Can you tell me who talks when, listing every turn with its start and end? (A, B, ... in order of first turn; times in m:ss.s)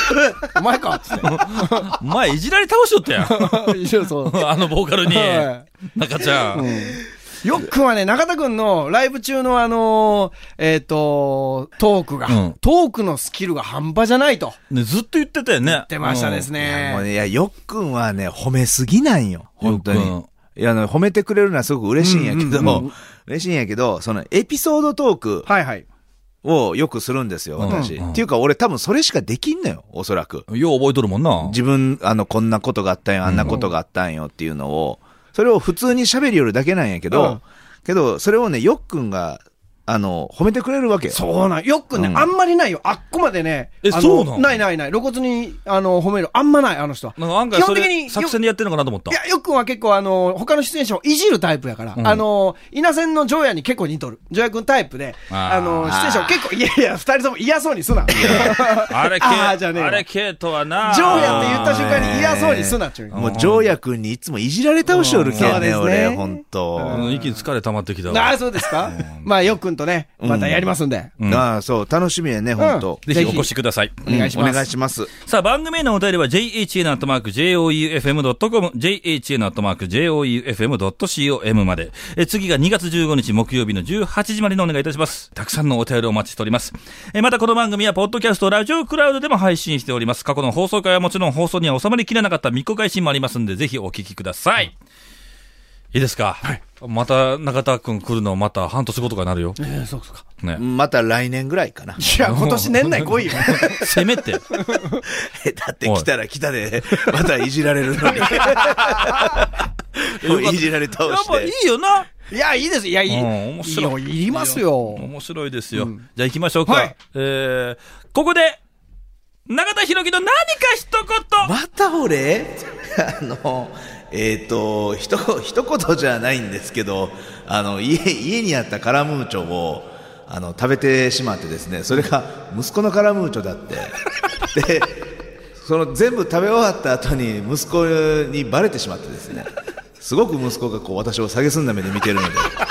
0:00.4-0:01.9 A
0:01.2-0:06.7 B
0:03.2-0:04.4 A
0:05.0-0:05.6 A
0:06.5-0:14.6 A
0:12.3-0:12.5 B
0:14.7-0:16.5 B
0:15.6-0:17.1 A
0:16.6-0:25.5 C
0:19.6-0:20.3 B
0:22.0-0:22.9 A
0:25.4-0:25.8 A
0:26.4-0:30.4 C
0:27.6-0:28.2 B
0:27.7-0:27.9 A
0:30.5-0:31.6 B
0:31.4-0:41.2 C
0:33.2-0:33.6 B
0:37.1-0:37.4 A
0:41.1-0:48.4 A
0:42.0-0:42.2 B
0:43.8-0:44.6 B
0:47.2-0:49.2 B
0:49.1-1:00.0 A
0:52.0-0:52.2 B
0:55.3-0:55.9 B
0:55.8-0:56.4 C
0:58.1-1:02.3 B
1:00.8-1:03.3 A
1:01.0-1:07.1 C
1:03.1-1:03.7 B
1:04.9-1:07.4 A
1:05.2-1:05.6 B
1:06.9-1:09.3 B
1:08.1-1:11.1 A
1:10.2-1:10.7 C
1:11.2-1:11.4 B
1:11.3-1:13.5 C
1:12.6-1:13.5 A
1:13.1-1:14.0 B
1:14.0-1:14.7 A
1:14.0-1:15.1 C
1:15.2-1:34.7 B
1:35.9-1:39.6 B
1:39.6-1:40.2 A
1:40.6-1:42.2 C
1:42.0-1:44.0 A
1:42.2-1:44.4 B
1:44.5-1:45.0 A
1:45.0-1:51.5 C
1:48.2-1:48.9 A
1:50.1-1:52.1 B
1:52.3-1:55.0 A
1:53.1-1:58.6 B
1:55.7-1:56.0 A
1:56.6-1:56.9 A
1:59.5-2:01.5 B
2:01.4-2:22.5 C